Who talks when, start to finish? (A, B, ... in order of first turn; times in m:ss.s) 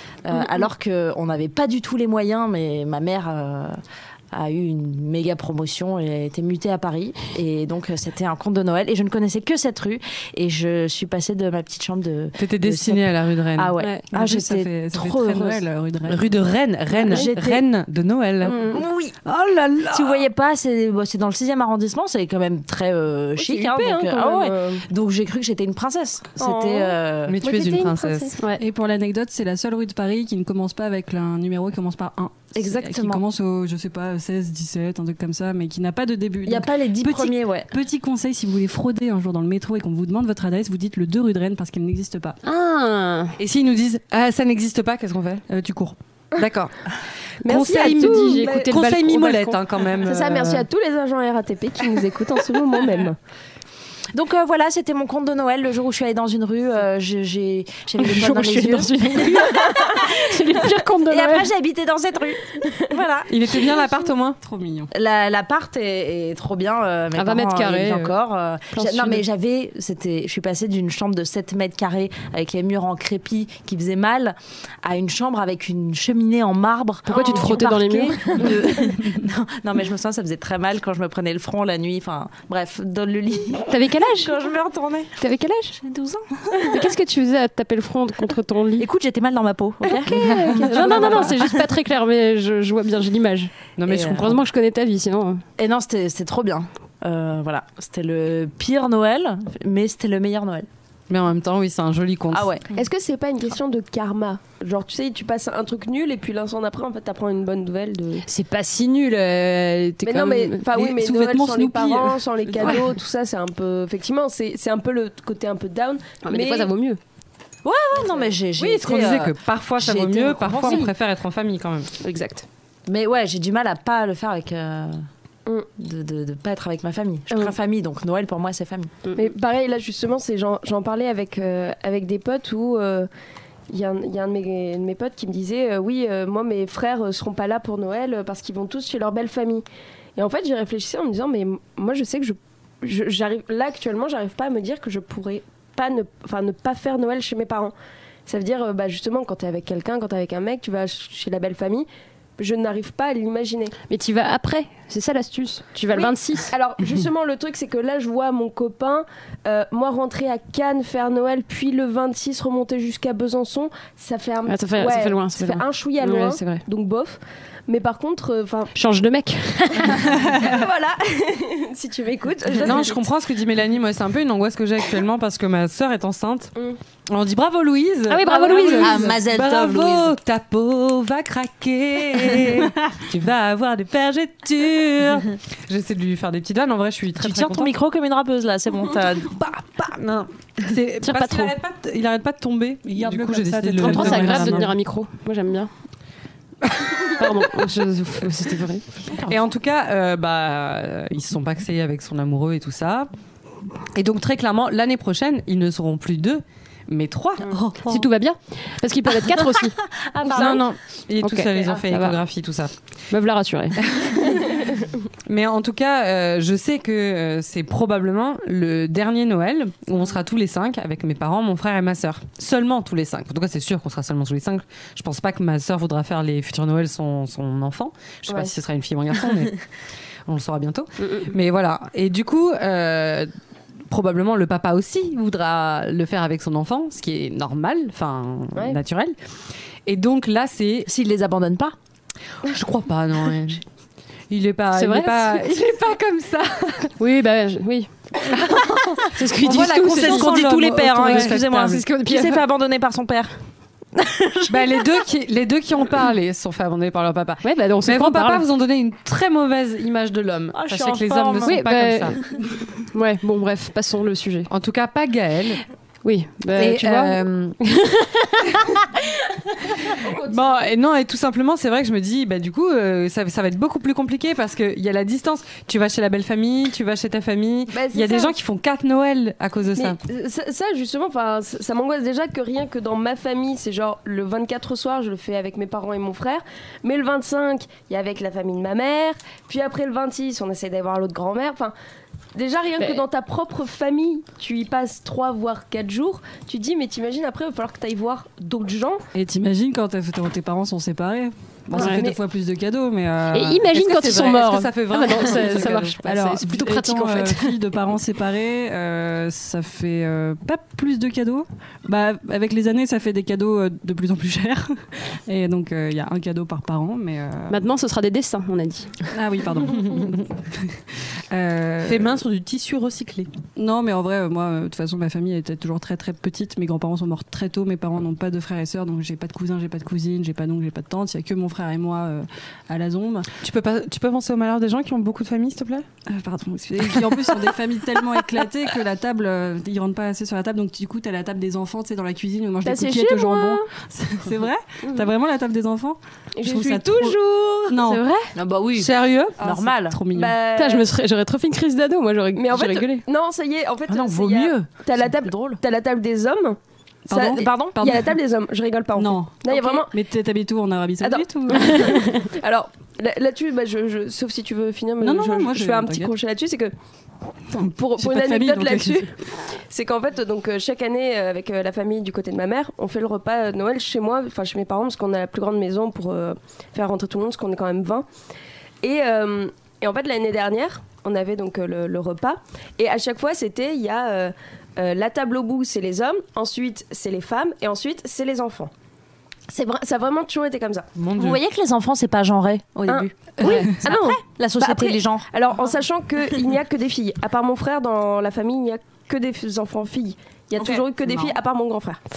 0:00.2-0:03.8 A
0:04.3-0:15.6 A
0:12.4-0:13.7 B
0:14.1-0:16.3 C
0:16.1-0:18.6 B
0:17.0-0:17.6 A
0:18.5-0:19.2 A
0:18.5-0:18.8 D
0:18.5-0:18.8 E
0:19.2-0:20.2 B
0:19.9-0:27.4 A
0:23.4-0:24.8 E
0:26.4-0:28.4 E
0:27.3-0:28.4 B
0:28.4-0:28.6 D
0:28.6-0:42.4 C
0:32.6-0:33.2 A
0:36.4-0:37.7 A
0:42.4-0:43.4 D
0:43.4-0:45.5 B
0:45.5-0:46.0 C
0:46.4-0:50.7 B
0:47.4-0:49.6 D
0:47.5-0:48.7 E
0:50.0-0:53.2 E
0:54.1-1:03.3 A
0:58.0-1:01.5 D
1:03.3-1:04.4 B
1:04.4-1:04.9 C
1:04.9-1:25.2 A
1:07.2-1:08.2 D
1:08.7-1:09.2 D
1:17.1-1:18.7 D
1:17.1-1:17.4 E
1:23.7-1:24.4 D
1:25.2-1:25.8 D
1:25.8-1:26.3 A
1:26.6-1:28.9 D
1:28.8-1:31.7 A
1:29.9-1:35.4 D
1:33.8-1:34.4 B
1:33.9-1:34.3 A
1:35.6-1:40.7 A
1:41.1-1:42.5 B
1:42.3-1:42.7 A
1:42.7-1:48.2 E
1:48.2-1:50.7 D
1:50.0-1:56.7 E
1:51.0-1:52.1 C
1:56.2-1:57.0 D
1:57.6-2:00.9 A
1:58.0-1:58.3 E
1:58.6-2:01.9 B
2:02.0-2:02.5 D
2:02.9-2:05.0 A
2:05.8-2:08.9 A
2:09.2-2:13.1 E
2:13.7-2:19.6 E
2:20.2-2:27.7 E
2:28.3-2:31.9 E
2:32.4-2:33.8 E
2:33.9-2:36.6 D
2:35.9-2:48.7 E
2:44.5-2:46.6 D
2:48.8-2:50.4 D
2:50.1-2:50.4 C
2:50.2-2:53.1 E
2:52.6-2:56.6 B
2:57.1-3:07.7 B
2:58.1-2:59.1 D
2:58.3-2:58.9 E
2:58.8-3:00.2 A
3:07.2-3:09.4 A
3:09.2-3:14.7 B
3:11.0-3:11.6 D
3:12.8-3:14.7 C
3:13.8-3:15.7 D
3:16.7-3:17.1 B
3:17.1-3:18.9 D
3:19.3-3:23.1 B
3:23.9-3:28.1 B
3:27.9-3:29.8 D
3:29.8-3:30.6 A
3:30.3-3:32.7 B
3:31.2-3:32.2 D
3:33.1-3:33.8 D
3:33.9-3:34.6 B
3:35.3-3:49.6 B
3:48.3-3:48.5 E
3:50.3-3:53.3 B
3:53.9-3:59.2 B
3:59.9-4:00.9 B
4:00.9-4:01.8 A
4:02.4-4:03.6 B
4:04.3-4:06.9 B
4:04.7-4:05.5 D
4:07.0-4:07.9 D
4:08.2-4:11.8 B
4:09.1-4:10.3 D
4:09.8-4:13.3 A
4:11.0-4:12.4 D
4:14.0-4:14.8 A
4:14.5-4:22.2 B
4:17.4-4:18.4 D
4:20.5-4:21.6 A
4:21.4-4:22.2 D
4:22.8-4:24.5 D
4:24.5-4:25.6 B
4:26.0-4:28.8 D
4:26.6-4:27.6 B
4:29.8-4:40.0 B
4:29.9-4:30.7 E
4:37.7-4:38.4 E
4:39.8-4:51.7 E
4:52.4-4:59.0 E
4:59.1-5:03.7 C
5:01.7-5:02.2 E
5:01.7-5:02.1 D
5:03.3-5:07.6 D
5:03.7-5:06.0 B
5:05.6-5:17.6 C
5:17.5-5:18.9 D
5:19.1-5:22.2 C
5:19.9-5:20.2 B
5:21.8-5:23.3 B
5:23.6-5:33.3 C
5:33.4-5:35.9 B
5:36.1-5:48.0 C
5:42.6-5:43.7 E
5:46.4-5:47.1 E
5:47.0-5:47.9 B
5:47.8-5:48.3 D
5:48.4-5:50.0 A
5:48.8-5:49.4 B
5:49.4-5:50.4 C
5:50.1-5:50.9 E
5:50.6-5:53.0 D
5:52.4-5:56.6 E
5:53.9-5:55.6 A
5:57.1-5:58.2 C
5:57.1-6:00.0 E
5:57.1-5:57.8 A
5:59.0-6:02.3 C
6:01.0-6:06.7 E
6:01.5-6:01.8 D
6:05.0-6:06.1 C
6:07.5-6:09.1 C
6:07.5-6:18.1 E
6:18.8-6:28.7 E
6:29.5-6:30.9 E
6:31.0-6:31.4 B
6:31.2-6:35.3 A
6:32.9-6:42.0 E
6:33.4-6:33.7 D
6:33.4-6:33.8 C
6:40.6-6:41.4 C